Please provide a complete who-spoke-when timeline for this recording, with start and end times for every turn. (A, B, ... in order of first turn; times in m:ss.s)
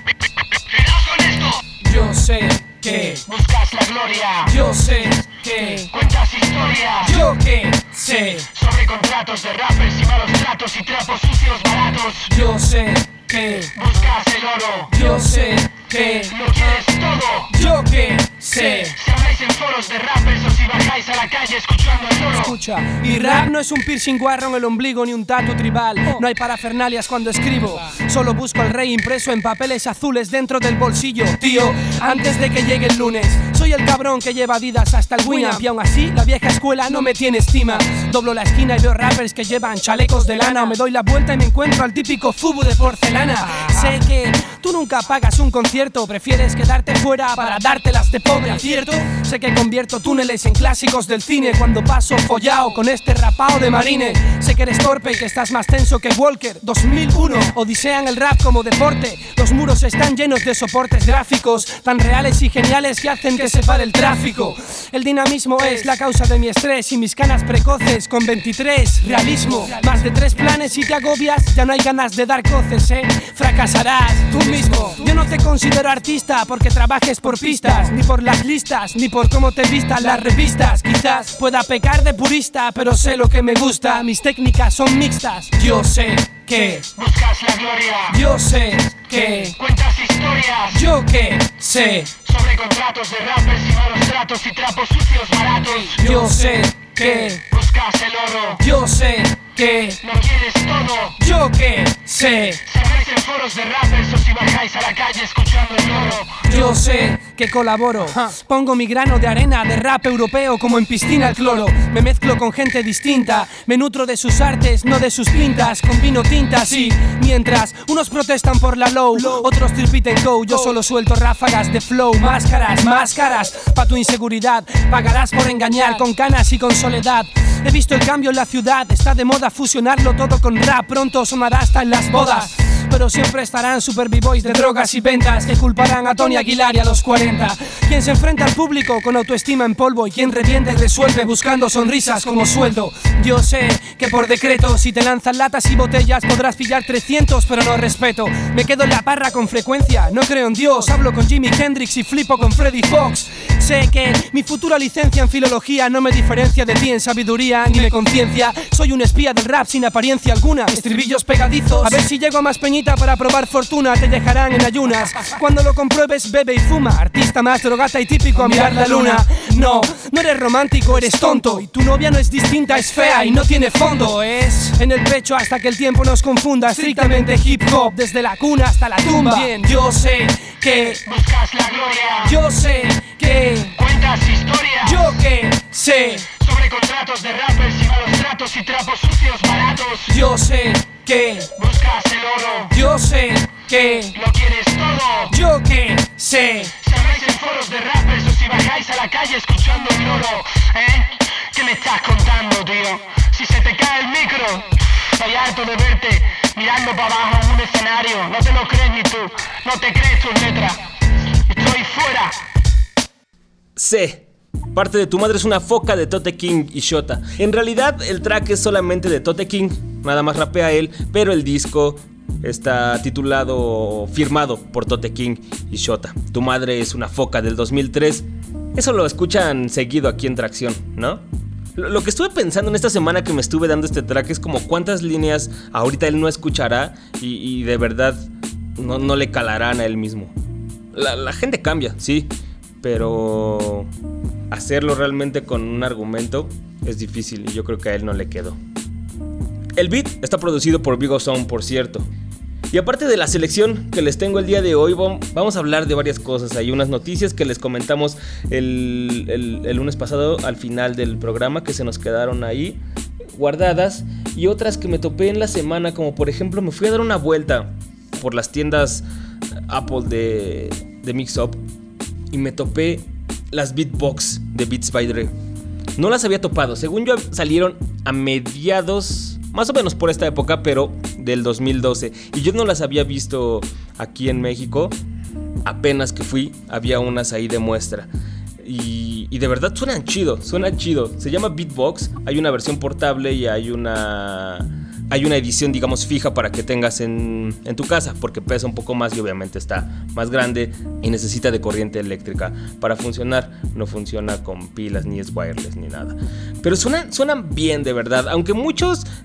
0:00.7-0:01.6 A
0:01.8-0:03.2 B
0:03.3-0:04.5 A
0:04.4-0:05.9 B
0:05.9-0:07.2 A
0:07.0-0:08.5 B
0:08.5-0:12.3 A
0:12.3-0:13.7 B
0:13.8-0:14.9 A
0:14.9-0:16.8 B
0:16.3-0:17.6 A
0:17.5-0:18.9 B
0:18.9-0:22.6 A
0:22.3-1:26.9 B
1:27.0-1:28.2 A
1:28.1-1:29.6 B
1:29.5-1:30.8 A
1:30.7-1:32.1 B
1:32.2-1:36.3 A
1:36.0-1:37.4 B
1:37.5-1:38.6 A
1:38.6-1:40.0 B
1:40.0-1:41.2 A
1:41.2-1:42.6 B
1:42.7-1:46.4 A
1:46.5-3:01.0 B
3:01.0-3:02.4 A
3:02.2-3:03.8 B
3:03.8-3:05.2 A
3:04.8-3:06.3 B
3:06.4-3:10.2 A
3:10.1-3:11.5 B
3:11.6-3:12.8 A
3:12.7-3:14.2 B
3:14.1-3:15.3 A
3:15.3-3:16.8 B
3:16.8-3:30.8 A
3:31.5-3:32.4 A
3:33.8-3:51.2 C
3:51.8-3:58.2 C
3:58.8-4:00.3 C
4:00.9-4:03.9 C
4:04.5-4:08.6 C
4:09.8-4:12.1 C
4:12.7-4:22.8 C
4:23.4-4:29.0 C
4:29.7-4:31.6 C
4:32.3-4:35.3 C
4:36.0-4:45.0 C
4:45.6-4:48.1 C
4:48.6-5:09.1 C